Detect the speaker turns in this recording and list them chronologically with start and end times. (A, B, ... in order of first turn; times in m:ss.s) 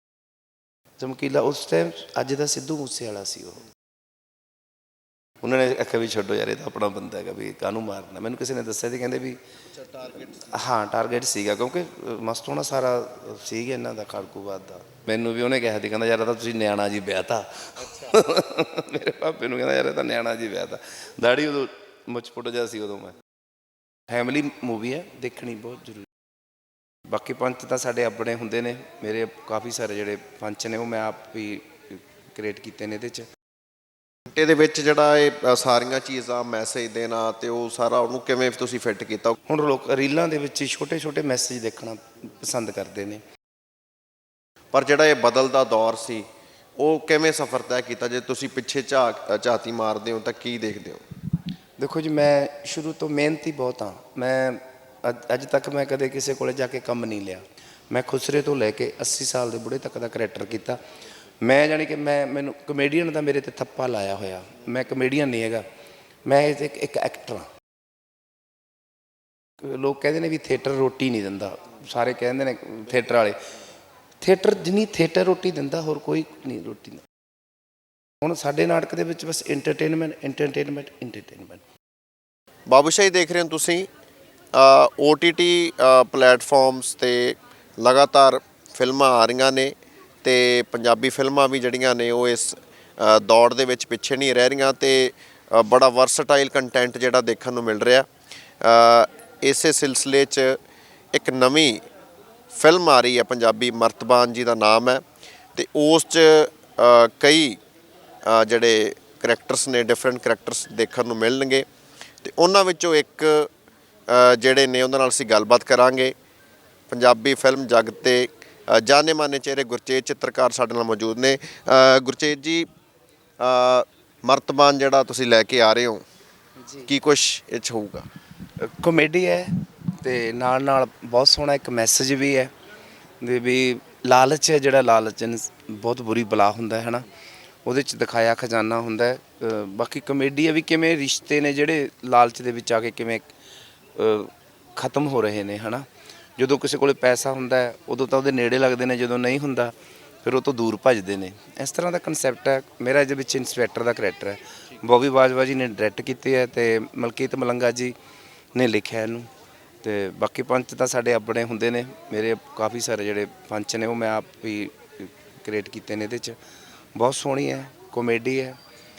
0:01.0-0:03.6 A
0:05.4-0:09.4 A
0:09.8-0:10.6 B
0:10.5-0:23.2 A
0:17.8-0:18.2 B
0:24.1-0:26.1 A
0:27.1-0:33.3 A
0:34.3-0:39.4 B
0:39.5-0:43.2 A
0:44.7-0:46.3 B
0:46.8-0:51.0 B
0:51.8-1:00.8 A
1:01.4-1:05.6 A
1:06.2-1:07.5 A
1:09.6-1:13.4 A
1:14.2-1:17.0 A
1:18.2-1:21.6 A
1:22.7-1:23.9 B
1:24.5-1:38.1 B
1:38.6-1:40.6 B
1:41.1-1:41.8 B
1:42.5-1:45.0 B
1:45.6-1:47.6 B
1:48.2-1:51.7 B
1:52.2-1:53.5 B
1:54.1-1:56.1 B
1:56.9-2:02.7 B
2:03.4-2:06.0 B
2:06.9-2:08.0 B
2:08.6-2:12.5 A
2:13.2-2:17.1 A
2:17.6-2:23.3 A
2:24.0-2:38.0 A
2:38.5-2:39.3 A
2:39.8-2:46.4 A
2:47.0-2:48.6 A